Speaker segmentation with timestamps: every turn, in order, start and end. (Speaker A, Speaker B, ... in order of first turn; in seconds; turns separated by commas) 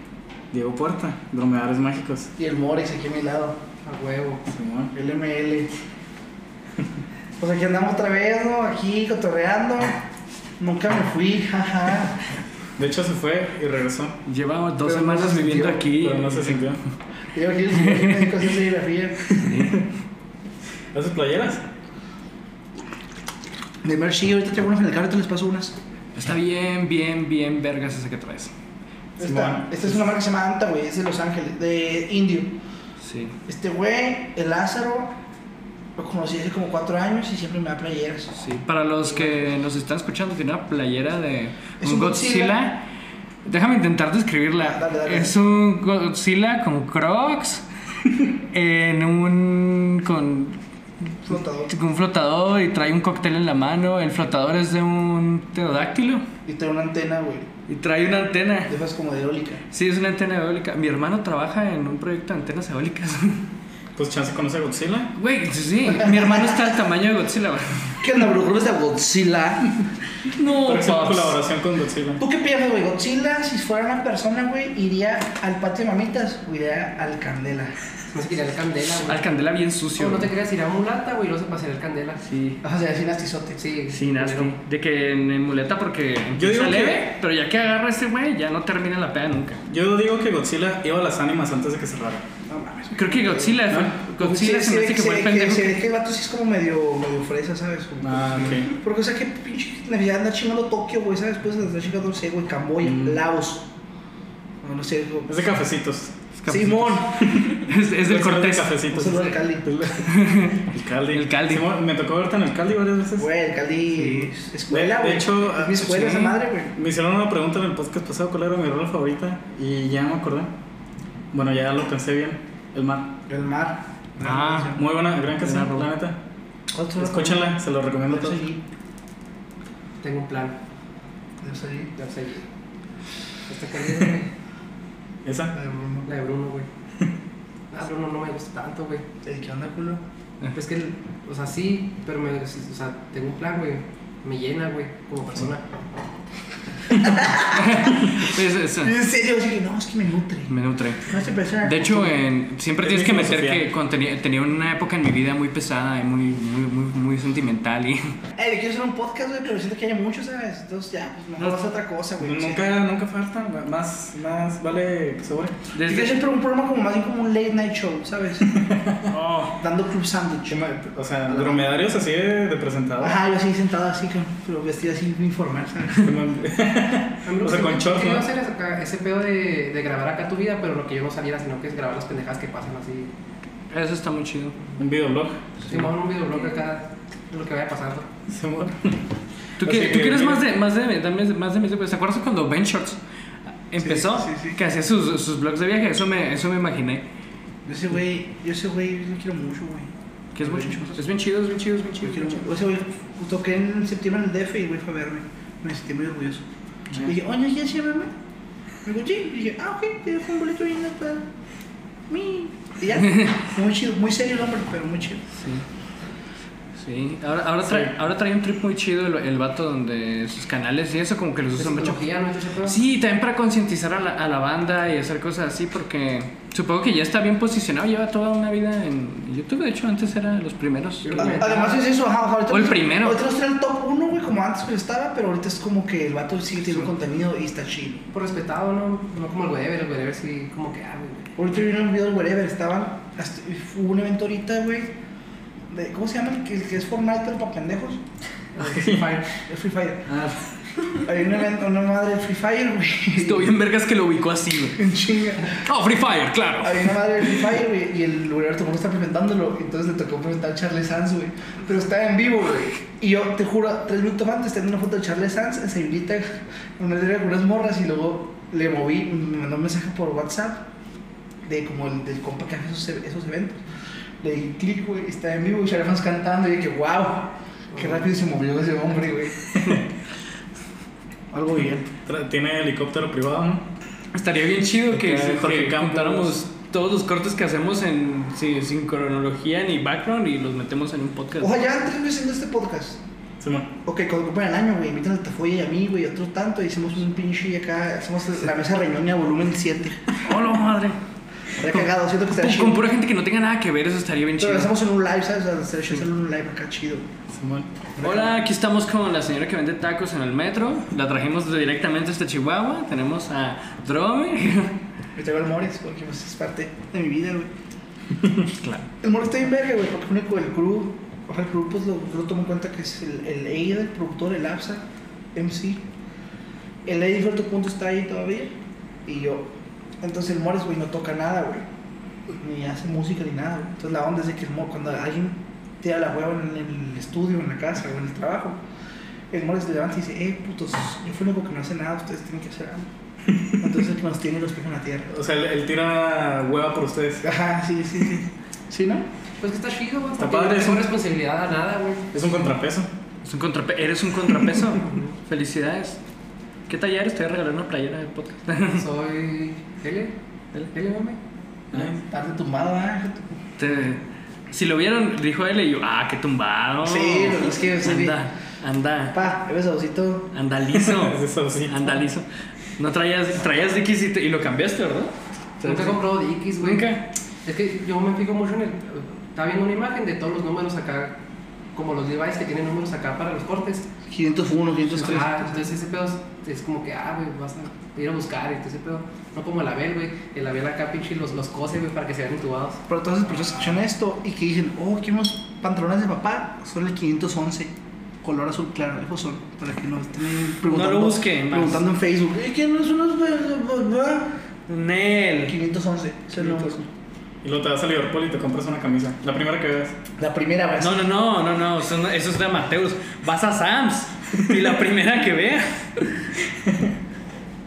Speaker A: 0.5-2.3, Speaker B: 2.4-3.6, Speaker C: 3.9-4.4, Speaker A: 4.5-4.9, Speaker B: 4.9-5.7, Speaker B: 7.4-10.0, Speaker B: 10.6-12.2, Speaker A: 12.8-14.2, Speaker D: 14.2-16.6, Speaker B: 14.8-15.9, Speaker A: 16.0-16.8, Speaker B: 17.3-19.4, Speaker A: 19.3-19.8, Speaker D: 19.4-19.8, Speaker A: 20.9-21.7, Speaker B: 23.8-25.8, Speaker D: 26.2-28.5, Speaker B: 29.2-32.6, Speaker A: 29.2-30.0, Speaker D: 33.0-33.4, Speaker B: 33.5-35.2, Speaker B: 36.0-38.4, Speaker D: 38.4-42.9, Speaker B: 41.8-42.7, Speaker D: 43.5-47.6, Speaker B: 44.6-45.4, Speaker D: 48.3-50.6, Speaker B: 51.2-51.7, Speaker D: 51.7-56.3, Speaker B: 56.5-57.5, Speaker D: 57.7-58.7, Speaker B: 58.7-59.6, Speaker D: 59.7-63.5, Speaker A: 64.0-65.1, Speaker D: 65.2-68.0, Speaker B: 66.0-66.7, Speaker B: 68.0-69.7, Speaker D: 70.3-71.4, Speaker A: 70.5-72.2, Speaker B: 72.2-77.8, Speaker C: 78.1-79.3, Speaker D: 79.0-80.3, Speaker C: 80.0-82.2, Speaker D: 82.2-82.6, Speaker B: 82.6-83.6, Speaker C: 83.6-84.5, Speaker D: 83.9-89.6, Speaker A: 86.4-87.1, Speaker A: 89.7-92.2, Speaker B: 92.5-103.7, Speaker D: 92.9-95.8, Speaker A: 93.7-93.9, Speaker A: 98.0-98.7, Speaker A: 102.8-103.2, Speaker B: 104.6-105.3, Speaker A: 105.3-106.1, Speaker D: 106.4-108.8, Speaker B: 106.5-107.4, Speaker A: 107.0-113.3, Speaker B: 108.9-109.7, Speaker D: 110.0-111.7, Speaker B: 113.2-116.7, Speaker D: 114.0-114.2, Speaker A: 114.7-120.5, Speaker A: 121.3-123.2, Speaker B: 123.3-124.8, Speaker D: 124.2-124.8, Speaker A: 124.7-126.2, Speaker D: 125.4-125.9, Speaker B: 126.7-128.6, Speaker A: 127.0-128.5, Speaker C: 130.0-130.6, Speaker B: 131.4-131.9, Speaker C: 132.0-132.5, Speaker C: 133.5-134.3, Speaker A: 135.2-135.6, Speaker B: 135.5-136.1, Speaker C: 136.1-136.7, Speaker C: 137.7-139.1, Speaker B: 139.2-140.0, Speaker C: 140.5-145.7, Speaker B: 147.0-148.2, Speaker D: 147.4-149.0, Speaker B: 148.8-150.5, Speaker D: 150.5-158.2, Speaker B: 151.1-152.2, Speaker A: 152.8-153.7, Speaker B: 158.4-162.8, Speaker A: 162.2-165.6, Speaker D: 165.7-166.2, Speaker B: 165.8-168.6, Speaker A: 168.5-169.0, Speaker D: 169.1-169.6, Speaker B: 169.5-170.6, Speaker A: 170.5-173.2, Speaker B: 171.3-171.8, Speaker B: 173.0-176.1, Speaker A: 176.0-178.3, Speaker C: 177.3-183.1, Speaker D: 183.7-184.6, Speaker A: 184.8-185.4, Speaker D: 185.6-185.9, Speaker C: 185.7-188.1, Speaker A: 188.3-189.0, Speaker D: 189.6-193.0, Speaker A: 189.6-190.4, Speaker D: 193.7-197.1, Speaker B: 193.8-194.6, Speaker B: 197.7-201.0, Speaker D: 200.3-202.6, Speaker B: 202.0-208.1, Speaker B: 208.8-211.3, Speaker B: 212.1-215.3, Speaker D: 215.4-215.7, Speaker D: 216.8-222.1, Speaker A: 217.7-217.9, Speaker C: 221.6-222.8, Speaker D: 222.6-231.2, Speaker C: 231.0-231.8, Speaker B: 231.2-238.1, Speaker D: 232.5-233.2, Speaker C: 238.1-241.3, Speaker B: 241.4-244.9, Speaker B: 245.7-248.0, Speaker B: 248.6-250.2, Speaker A: 248.6-249.2, Speaker B: 251.0-253.5, Speaker D: 253.2-254.9, Speaker B: 254.8-255.6, Speaker D: 255.4-256.9, Speaker B: 256.6-270.7, Speaker B: 271.4-273.7, Speaker B: 274.2-279.5, Speaker B: 281.3-281.9, Speaker A: 281.9-283.7, Speaker D: 284.1-291.6, Speaker A: 284.9-286.4, Speaker B: 291.4-293.0, Speaker A: 293.4-293.7, Speaker B: 293.8-300.0, Speaker D: 300.2-301.0, Speaker B: 301.6-302.8, Speaker D: 302.4-304.7, Speaker B: 304.4-307.1, Speaker A: 307.3-307.7, Speaker B: 308.0-308.4, Speaker D: 308.0-314.8, Speaker B: 315.1-317.5, Speaker D: 318.6-318.9, Speaker B: 319.0-325.9, Speaker B: 326.9-331.6, Speaker B: 332.4-338.6, Speaker B: 339.3-342.9, Speaker B: 343.6-345.1, Speaker A: 345.1-347.2, Speaker B: 347.2-349.1, Speaker C: 349.4-352.1, Speaker A: 350.2-350.9, Speaker A: 352.1-352.9, Speaker D: 353.2-356.0, Speaker D: 356.7-358.8, Speaker C: 358.7-360.2, Speaker C: 360.7-361.2, Speaker A: 361.7-362.0, Speaker B: 361.8-363.4, Speaker D: 363.6-369.2, Speaker B: 366.8-368.2, Speaker B: 369.1-370.3, Speaker D: 370.3-372.3, Speaker A: 370.8-371.9, Speaker D: 372.8-376.0, Speaker C: 375.6-376.9, Speaker D: 376.6-377.1, Speaker C: 377.4-381.2, Speaker C: 381.7-383.9, Speaker B: 384.1-385.7, Speaker C: 385.0-392.8, Speaker B: 392.9-404.4, Speaker D: 400.6-401.8, Speaker D: 404.7-405.6, Speaker B: 405.5-406.9, Speaker D: 406.4-406.8, Speaker A: 407.4-410.0, Speaker B: 410.2-411.1, Speaker D: 410.8-416.2, Speaker A: 416.7-416.9